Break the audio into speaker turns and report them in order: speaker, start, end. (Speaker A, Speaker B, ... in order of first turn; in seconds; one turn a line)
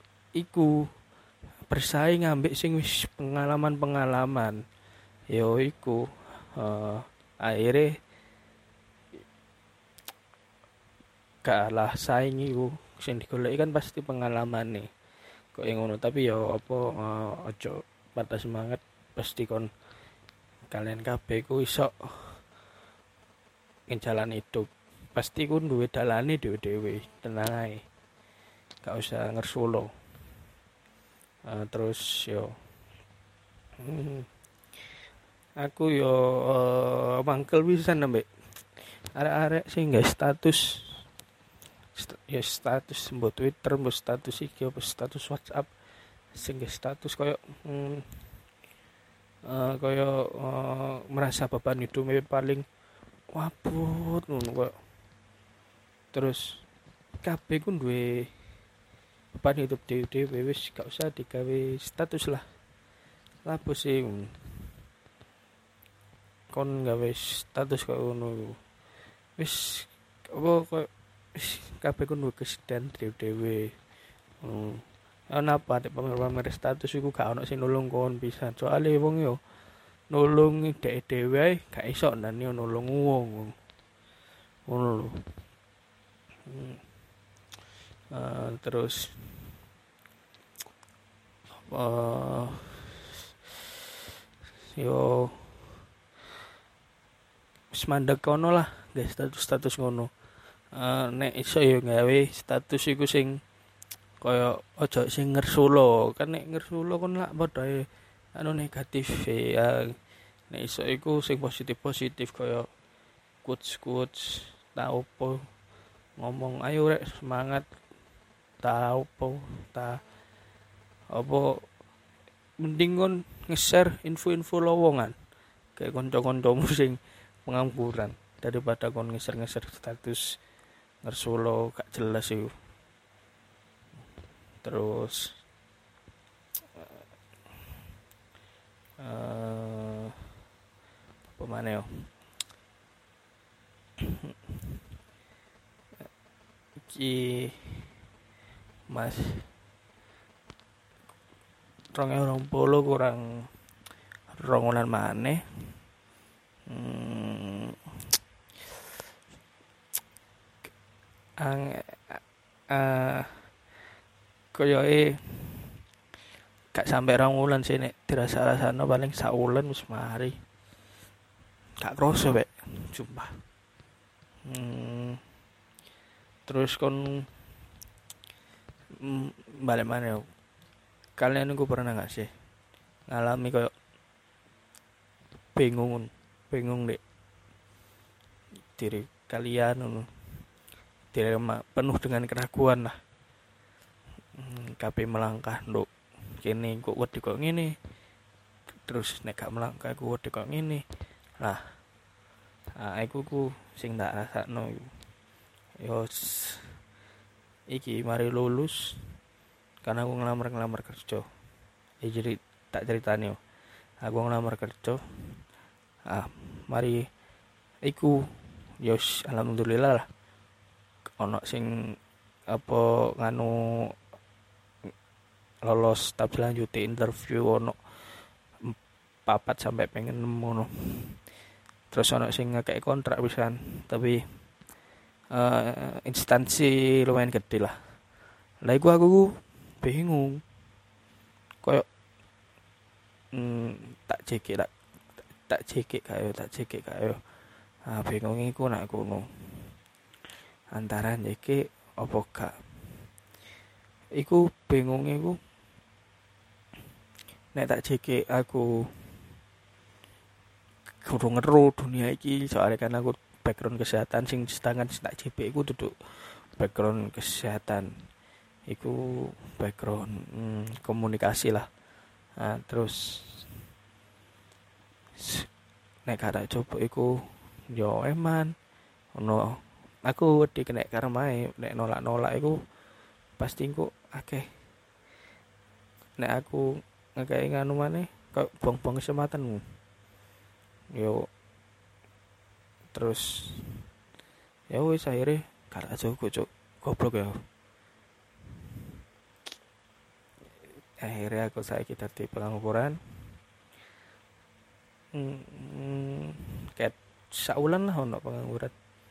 Speaker A: 0.3-0.9
Speaker A: 1.7-4.6
Speaker A: 5.3-7.9
Speaker A: 11.4-14.9
Speaker A: 15.5-19.7
Speaker A: 20.7-22.4
Speaker A: 23.9-27.8
Speaker A: 28.8-29.9
Speaker A: 31.5-32.5
Speaker A: 33.8-34.2
Speaker A: 35.6-41.0
Speaker A: 42.0-45.7
Speaker A: 46.3-48.3
Speaker A: 49.4-52.6
Speaker A: 53.3-54.8
Speaker A: 56.1-56.6
Speaker A: 57.2-58.3
Speaker A: 59.4-62.4
Speaker A: 63.4-64.7
Speaker A: 66.5-68.6
Speaker A: 69.4-73.8
Speaker A: 74.4-79.4
Speaker A: 80.1-83.5
Speaker A: 84.7-85.2
Speaker A: 86.5-86.8
Speaker A: 88.1-89.6
Speaker A: 91.7-93.5
Speaker A: 94.7-95.8
Speaker A: 97.7-100.1
Speaker A: 100.7-103.4
Speaker A: 104.2-109.9
Speaker A: 110.5-112.7
Speaker A: 113.4-115.4
Speaker A: 116.2-117.7
Speaker A: 118.6-120.0
Speaker A: 121.1-121.6
Speaker A: 122.6-125.2
Speaker A: 125.7-130.2
Speaker A: 131.0-132.5
Speaker A: 134.6-135.4
Speaker A: 139.0-140.2
Speaker A: 141.3-142.1
Speaker A: 144.0-144.3
Speaker A: 146.8-147.9
Speaker A: 148.9-149.5
Speaker A: 151.9-153.5
Speaker A: 154.3-155.8
Speaker A: 156.7-157.8
Speaker A: 161.4-163.5
Speaker A: 164.5-165.8
Speaker A: 166.7-170.3
Speaker A: 171.8-173.4
Speaker A: 174.4-175.2
Speaker A: 176.4-177.3
Speaker A: 179.0-180.2
Speaker A: 181.2-182.3
Speaker A: 183.1-183.7
Speaker A: 185.5-187.0
Speaker A: 188.7-190.1
Speaker A: 191.1-192.9
Speaker A: 194.3-197.7
Speaker A: 198.8-200.8
Speaker A: 201.4-201.7
Speaker A: 202.8-204.9
Speaker A: 205.8-206.8
Speaker A: 207.7-209.0
Speaker A: 209.8-211.2
Speaker A: 212.0-213.4
Speaker A: 214.0-215.4
Speaker A: 216.1-217.0
Speaker A: 217.8-218.2
Speaker A: 218.8-220.1
Speaker A: 221.2-221.7
Speaker A: 222.5-223.9
Speaker A: 225.6-231.2
Speaker A: 231.9-234.2
Speaker A: 235.3-237.8
Speaker A: 238.6-240.4
Speaker A: 243.3-244.7
Speaker A: 245.4-247.2
Speaker A: 247.8-249.8
Speaker A: 250.7-252.6
Speaker A: 254.2-255.4
Speaker A: 257.5-259.1
Speaker A: 261.0-267.9
Speaker A: 268.7-271.6
Speaker A: 272.4-273.6
Speaker A: 275.2-275.5
Speaker A: 276.0-278.5
Speaker A: 279.1-282.6
Speaker A: 283.4-284.4
Speaker A: 286.2-289.6
Speaker A: 290.9-291.2
Speaker A: 292.9-293.9
Speaker A: 294.7-297.3
Speaker A: 301.0-303.4
Speaker A: 305.1-308.7